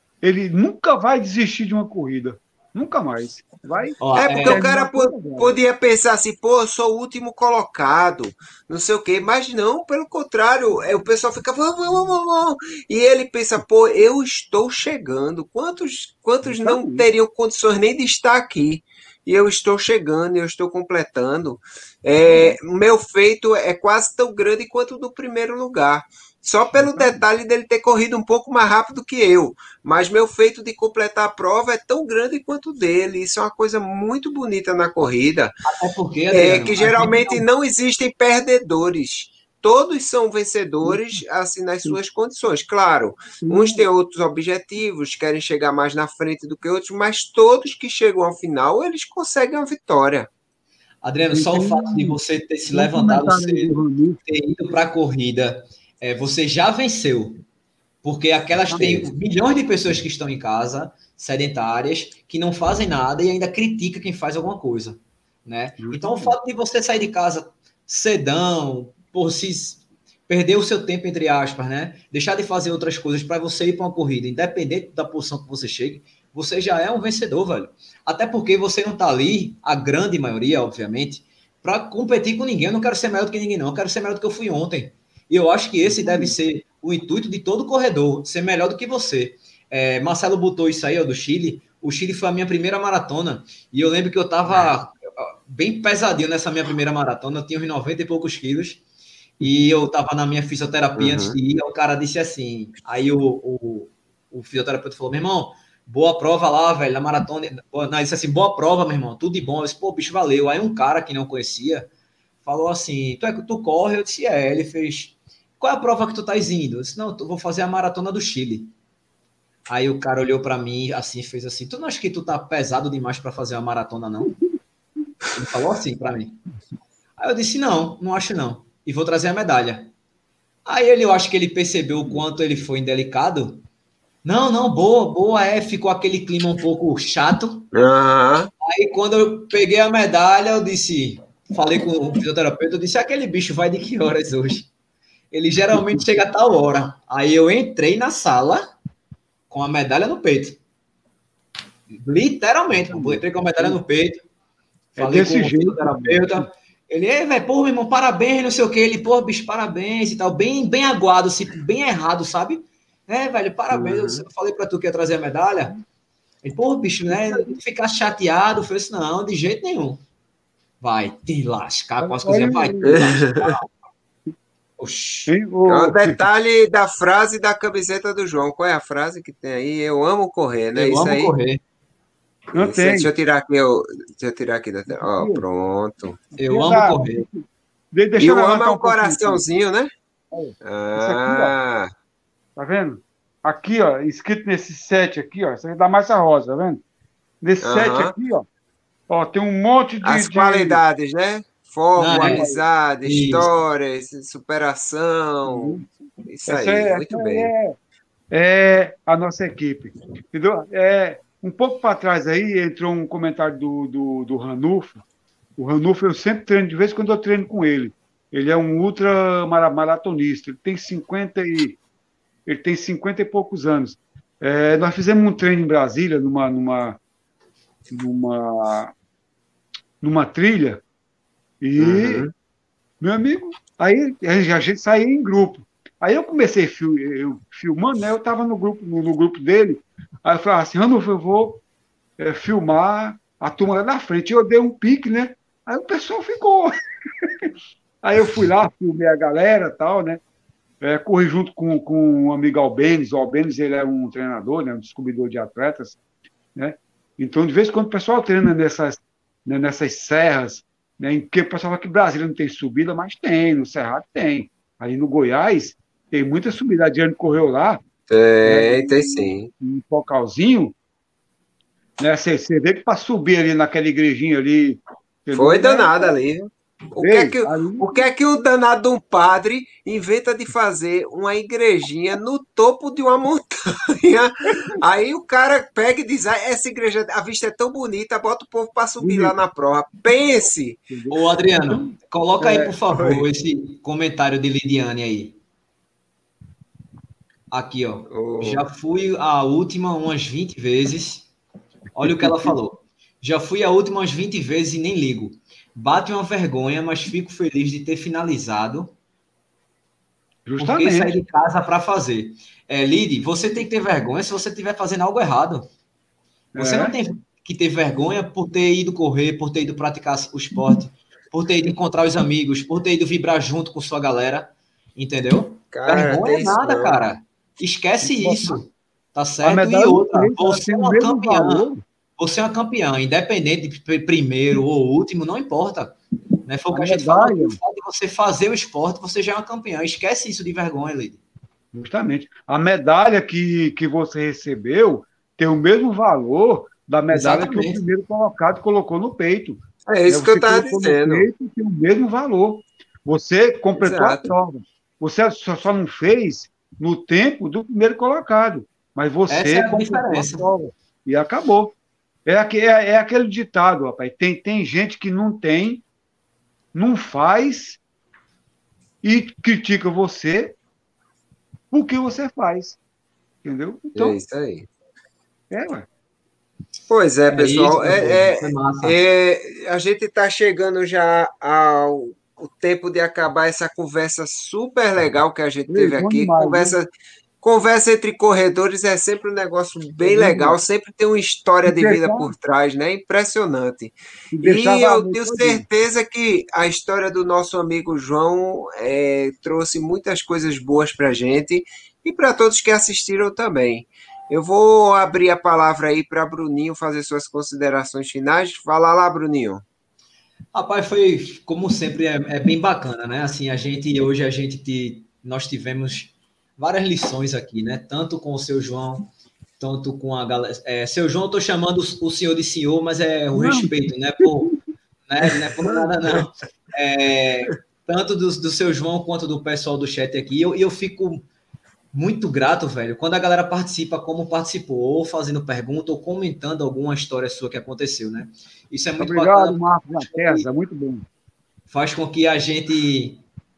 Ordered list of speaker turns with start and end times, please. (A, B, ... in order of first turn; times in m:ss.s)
0:00.2-0:05.6 A
0:04.0-0:04.6 B
0:04.1-0:35.6 C
0:16.4-0:17.1 A
0:26.8-0:27.2 A
0:35.6-0:37.4 B
0:36.3-0:50.3 C
0:43.4-0:43.8 A
0:51.0-0:57.4 B
0:51.3-0:52.2 A
0:52.7-0:54.2 A
0:58.0-1:38.8 B
0:58.7-0:59.1 A
1:05.8-1:06.3 A
1:25.8-1:26.3 A
1:39.4-1:51.9 B
1:41.0-1:41.4 C
1:52.4-1:58.7 B
1:59.7-2:04.3 B
2:05.3-2:06.4 B
2:07.2-2:09.9 B
2:10.6-2:13.6 B
2:14.2-2:17.7 B
2:17.7-2:18.5 C
2:18.6-2:24.7 B
2:25.3-2:28.7 B
2:25.7-2:26.0 A
2:29.5-2:30.6 B
2:31.9-2:34.2 B
2:32.9-2:33.8 A
2:35.0-2:36.5 A
2:35.0-2:45.8 B
2:43.7-2:44.2 C
2:46.4-2:50.0 B
2:47.1-2:47.5 A
2:50.8-2:53.7 B
2:52.0-2:53.0 A
2:52.9-2:53.5 C
2:54.8-2:55.3 B
2:55.3-2:56.2 A
2:55.6-3:01.3 C
3:00.7-3:01.6 B
3:02.5-3:03.1 A
3:02.5-3:06.2 C
3:04.9-3:05.4 A
3:06.4-3:09.4 A
3:06.4-3:07.2 B
3:08.2-3:09.9 C
3:10.3-3:11.5 A
3:10.6-3:11.9 C
3:12.6-3:16.8 A
3:17.4-3:18.4 A
3:17.6-3:18.1 C
3:19.1-3:20.8 A
3:20.0-3:27.5 C
3:22.0-3:22.5 B
3:22.1-3:22.6 A
3:23.0-3:23.5 B
3:25.4-3:25.8 A
3:26.5-3:27.7 A
3:28.3-3:35.0 A
3:35.6-3:41.8 A
3:42.4-3:47.0 A
3:47.9-3:48.9 A
3:50.0-3:50.8 A
3:51.6-3:52.3 A
3:51.8-3:52.3 C
3:53.0-4:01.6 A
4:02.2-4:07.5 A
4:08.0-4:10.2 A
4:10.8-4:16.0 A
4:16.6-4:27.8 A
4:28.1-4:29.5 C
4:28.4-4:30.7 A
4:32.0-4:36.2 A
4:35.3-4:50.9 C
4:37.0-4:38.0 A
4:49.0-4:49.4 A
4:50.9-4:53.2 A
4:51.1-4:55.4 B
4:57.5-5:01.3 B
4:58.1-4:58.6 C
5:01.9-5:08.9 B
5:02.0-5:02.5 A
5:10.4-5:11.2 A
5:10.6-5:15.7 B
5:16.5-5:17.0 A
5:16.6-5:41.2 B
5:25.7-5:27.1 C
5:28.0-5:28.7 A
5:29.4-5:31.8 A
5:36.7-5:37.6 A
5:41.7-6:05.8 A
5:47.1-5:47.8 B
5:49.9-5:51.2 C
5:53.8-5:54.3 C
5:59.3-6:00.5 B
6:06.7-6:07.8 A
6:09.0-6:10.6 A
6:11.7-6:12.8 A
6:13.4-6:14.2 A
6:13.9-6:14.7 C
6:15.5-6:15.9 A
6:16.9-6:26.9 C
6:17.3-6:19.0 B
6:25.7-6:26.7 A
6:27.4-6:49.6 C
6:30.0-6:30.6 A
6:31.6-6:32.3 A
6:34.3-6:35.6 A
6:50.5-7:11.2 B
7:03.3-7:03.7 A
7:11.9-7:20.5 B
7:19.0-7:21.0 A
7:21.7-7:23.2 B